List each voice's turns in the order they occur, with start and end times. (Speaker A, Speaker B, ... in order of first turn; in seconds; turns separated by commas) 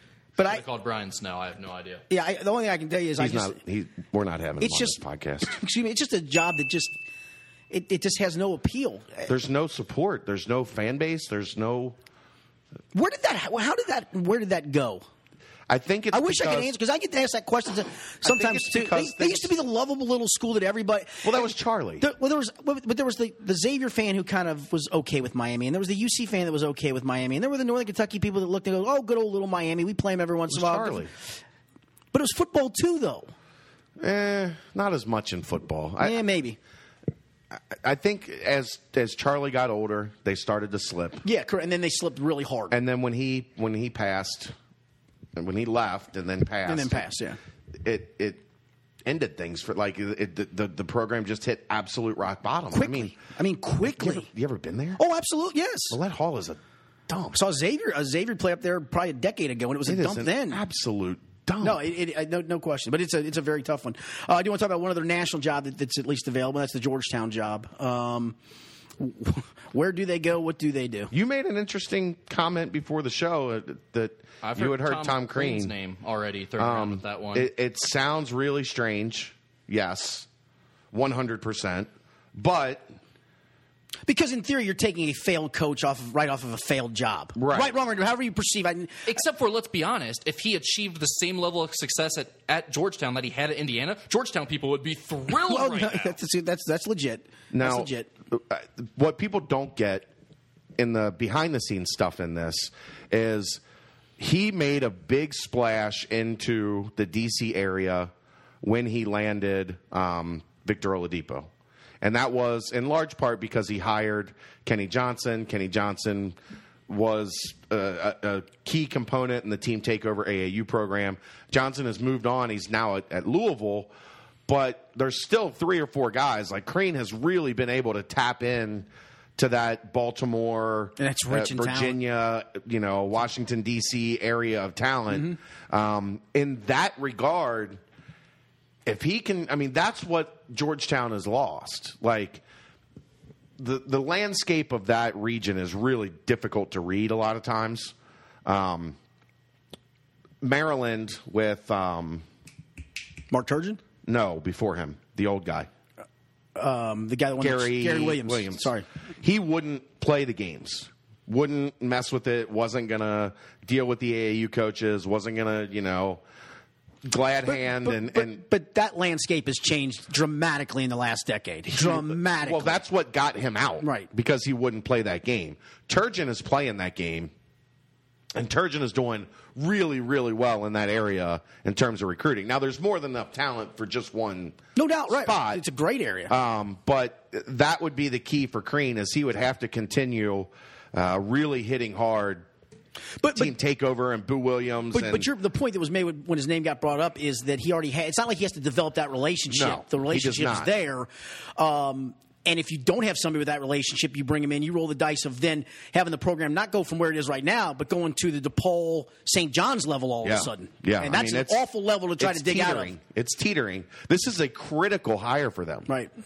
Speaker A: 0.4-0.6, Speaker B: 0.5-2.0, Speaker A: 2.1-3.6, Speaker C: 3.2-5.5, Speaker A: 4.6-6.9, Speaker A: 7.7-9.3, Speaker C: 9.3-12.0, Speaker A: 12.9-15.0, Speaker C: 15.7-16.7, Speaker A: 16.1-21.5, Speaker C: 18.2-19.5, Speaker C: 21.2-22.0, Speaker A: 22.0-31.1, Speaker C: 30.5-31.1, Speaker A: 32.1-33.3, Speaker C: 34.0-36.2, Speaker A: 36.0-36.6, Speaker C: 37.5-41.2, Speaker A: 41.2-42.7, Speaker C: 42.7-44.5, Speaker C: 45.4-47.1, Speaker A: 46.6-47.4, Speaker C: 47.8-48.4, Speaker C: 49.0-53.1, Speaker A: 52.7-54.3, Speaker C: 53.8-55.0, Speaker A: 55.0-56.0, Speaker C: 55.9-57.4, Speaker A: 57.3-60.6, Speaker C: 59.9-61.8, Speaker A: 61.6-68.4, Speaker A: 69.0-71.1, Speaker C: 71.1-75.7, Speaker B: 74.4-77.5, Speaker C: 76.6-80.3, Speaker C: 80.9-83.0, Speaker A: 84.1-89.1, Speaker C: 87.4-87.8, Speaker B: 89.1-96.1, Speaker A: 95.5-98.1, Speaker C: 97.5-100.1, Speaker C: 100.8-103.6, Speaker C: 104.2-108.1, Speaker C: 108.6-111.5, Speaker C: 112.0-116.4, Speaker C: 116.9-123.9, Speaker C: 124.5-137.8, Speaker A: 131.0-132.0, Speaker C: 138.8-142.4, Speaker C: 143.6-147.9, Speaker C: 148.4-149.0, Speaker C: 150.4-152.2, Speaker A: 153.3-153.8, Speaker C: 154.0-155.7, Speaker A: 156.5-158.8, Speaker C: 157.4-166.2, Speaker C: 167.0-168.4, Speaker A: 167.8-172.8, Speaker C: 171.7-177.3, Speaker A: 173.8-174.1, Speaker C: 178.3-185.6, Speaker A: 184.8-186.3, Speaker C: 186.3-192.5, Speaker A: 193.2-193.5, Speaker C: 193.3-195.3, Speaker A: 194.9-212.9, Speaker C: 199.5-200.7, Speaker C: 210.2-211.7, Speaker C: 212.2-215.9